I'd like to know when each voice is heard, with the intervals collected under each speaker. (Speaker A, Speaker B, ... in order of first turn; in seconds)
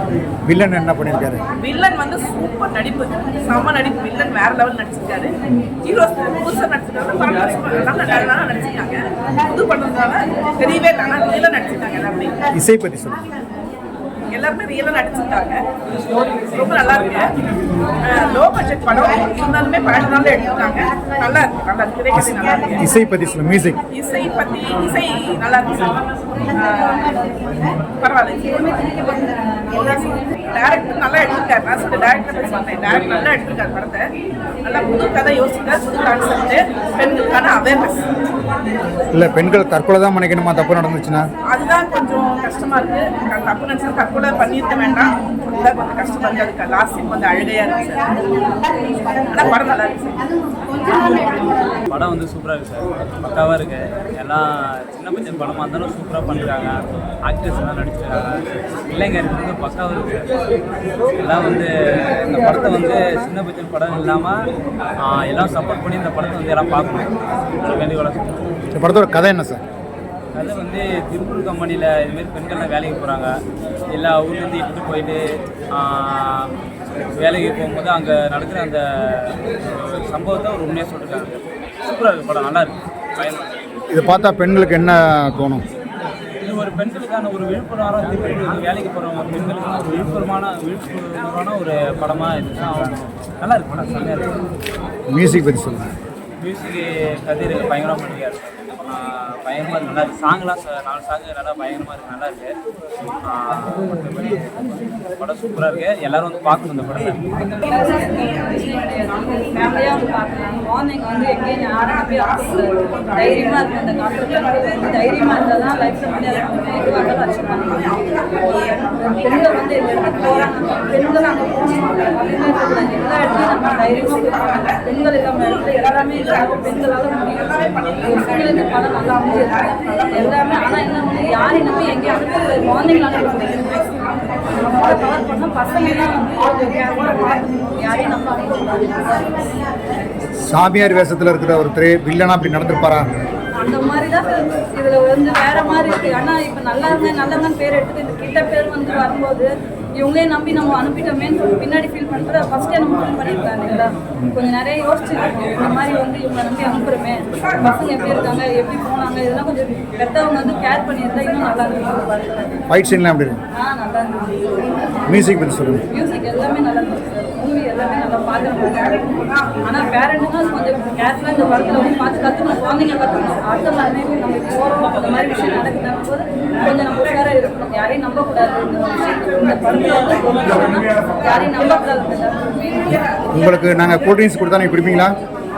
Speaker A: 0.5-1.4, 12.5-13.3, 22.8-23.8, 39.1-41.3, 68.8-69.6, 83.9-85.6, 95.1-95.9, 140.4-143.1, 162.7-163.4, 165.1-165.8, 183.3-185.2
Speaker B: 1.6-12.4, 14.3-15.7, 16.4-17.3, 18.0-22.8, 23.9-34.1, 34.6-38.1, 41.4-48.7, 49.3-50.2
Speaker C: 51.9-56.8, 57.2-58.3, 58.9-60.3, 61.2-64.4, 65.0-68.4, 70.3-73.3, 73.9-75.2, 75.7-76.5, 77.2-83.5, 86.4-94.4, 96.4-102.5, 103.2-104.5, 105.2-107.3
Speaker D: 107.4-139.4, 143.6-162.6, 163.6-164.4, 165.9-183.0